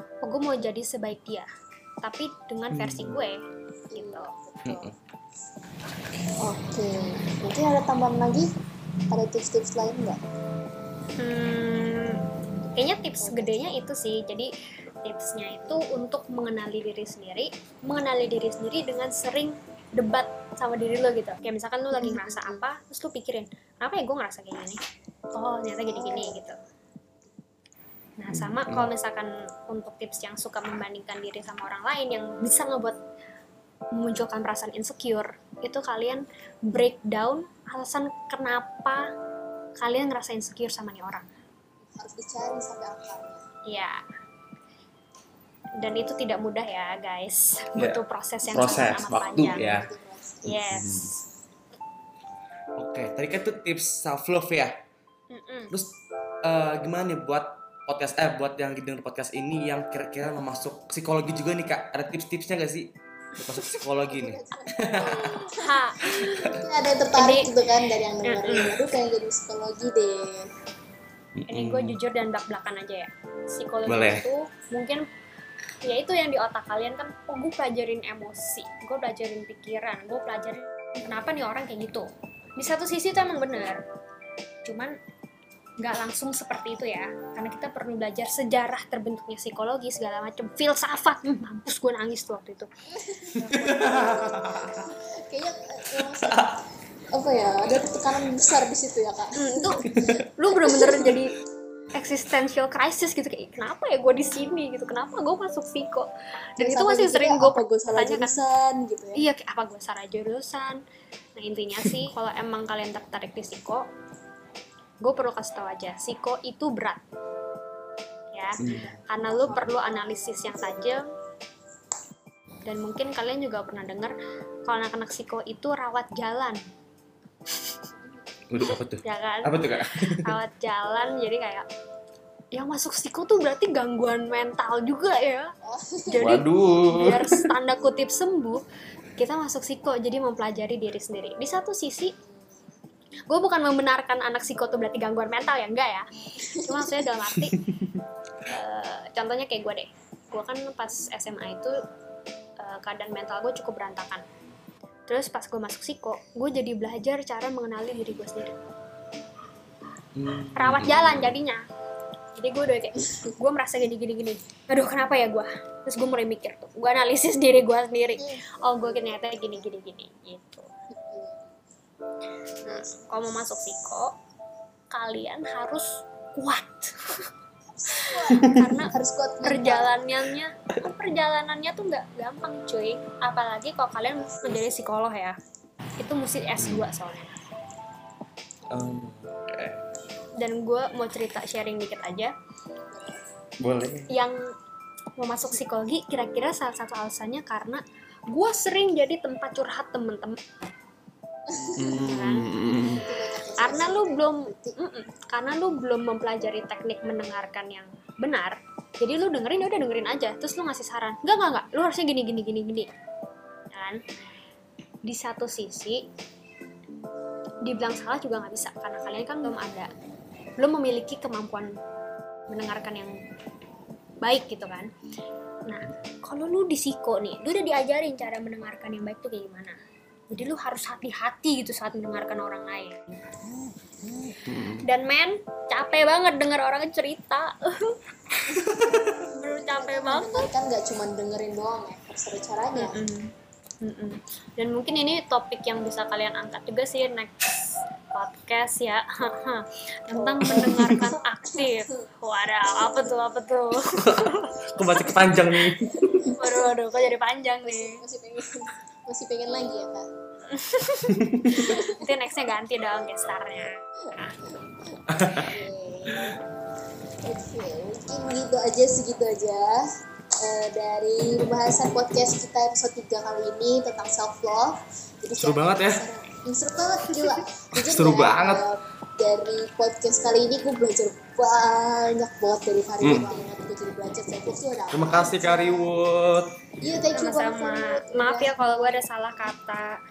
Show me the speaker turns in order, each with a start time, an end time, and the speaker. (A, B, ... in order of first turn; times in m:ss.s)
0:00.2-0:01.5 A
0:02.0-0:03.4 A
0:02.7-0:03.2 B
0:03.9-0:04.9 C
0:03.9-0:04.3 A
0:04.7-0:04.9 B
0:06.4-0:08.5 C
0:09.1-0:10.2 C
0:11.2-0:14.5 A
0:13.2-0:13.9 C
0:15.0-0:24.8 A
0:15.6-0:16.0 C
0:21.9-0:22.6 C
0:25.3-0:26.6 A
0:25.9-0:26.5 C
0:28.2-0:33.0 A
0:28.3-0:28.9 B
0:33.9-0:39.0 A
0:39.8-0:41.3 A
0:41.9-0:43.4 C
0:43.7-0:44.0 A
0:45.8-0:49.6 A
0:47.8-0:49.9 B
0:49.3-0:50.6 C
0:50.4-0:51.2 A
0:50.4-0:51.1 B
0:52.8-0:54.7 B
0:55.3-0:55.7 A
0:55.7-1:02.9 B
1:03.4-1:05.2 B
1:04.0-1:05.9 C
1:05.0-1:06.6 A
1:06.1-1:06.4 B
1:06.4-1:10.5 C
1:07.2-1:07.6 A
1:08.2-1:08.7 A
1:11.4-1:12.0 B
1:11.5-1:15.0 A
1:13.8-1:14.2 B
1:15.8-1:23.8 A
1:24.6-1:24.9 A
1:25.8-1:32.7 A
1:32.9-1:36.6 C
1:33.4-1:33.9 A
1:33.5-1:34.8 B
1:37.1-1:41.1 C
1:39.4-1:39.8 A
1:40.4-1:41.4 A
1:41.9-1:48.4 A
1:46.6-1:49.2 C
1:49.1-1:50.8 A
1:51.4-1:53.8 A
1:55.0-1:57.0 A
1:58.3-2:01.0 A
1:58.6-2:01.0 C
1:58.6-1:58.9 B
2:02.6-2:04.1 A
2:04.6-2:06.6 A
2:07.9-2:08.2 C
2:08.5-2:10.3 B
2:09.0-2:09.5 A
2:10.2-2:11.6 A
2:12.5-2:15.5 A
2:15.6-2:16.4 C
2:16.1-2:18.6 A
2:16.2-2:17.5 B
2:19.2-2:22.1 A
2:22.2-2:22.8 C
2:23.3-2:26.0 A
2:26.4-2:27.1 C
2:26.6-2:27.6 A
2:27.4-2:28.0 B
2:28.5-2:31.8 A
2:32.6-2:34.2 A
2:35.1-2:38.6 A
2:40.2-2:41.4 B
2:40.6-2:41.6 A
2:42.4-2:50.7 A
2:48.1-2:49.7 C
2:51.0-2:51.5 C
2:52.6-2:53.7 C
2:52.6-2:54.1 A
2:54.9-2:57.3 A
2:57.8-3:00.1 C
2:58.0-2:58.9 A
2:58.3-2:58.8 B
2:59.4-3:05.4 A
3:04.1-3:04.9 C
3:06.0-3:07.3 A
3:06.6-3:06.8 B
3:08.6-3:09.0 C
3:08.7-3:09.8 B
3:10.4-3:12.3 A
3:12.9-3:13.2 C
3:13.6-3:14.1 B
3:15.2-3:20.4 A
3:21.5-3:24.8 C
3:21.6-3:23.0 B
3:22.0-3:22.4 A
3:23.6-3:32.9 A
3:33.7-3:34.0 A
3:35.0-3:36.0 A
3:37.6-3:39.9 A
3:40.6-3:41.7 A
3:42.5-3:43.1 A
3:44.2-3:44.9 A
3:45.7-3:49.8 A
3:50.3-3:53.2 A
3:54.4-3:54.8 B
3:54.8-3:58.0 A
3:58.5-4:03.0 C
3:59.3-4:00.4 A
4:02.8-4:03.3 A
4:03.8-4:07.3 A
4:08.1-4:15.4 A
4:10.1-4:11.9 C
4:10.5-4:11.1 B
4:12.8-4:13.1 C
4:14.0-4:16.3 B
4:16.1-4:20.1 C
4:16.4-4:18.0 A
4:20.5-4:23.8 A
4:21.2-4:21.5 B
4:21.5-4:22.2 C
4:24.0-4:26.4 C
4:25.1-4:25.5 B
4:26.1-4:26.3 B
4:27.2-4:29.8 C
4:30.4-4:45.9 C
4:35.4-4:36.0 B
4:37.8-4:38.6 B
4:43.0-4:43.3 B
4:44.9-4:46.5 B
4:46.8-4:49.0 C
4:47.1-4:50.0 A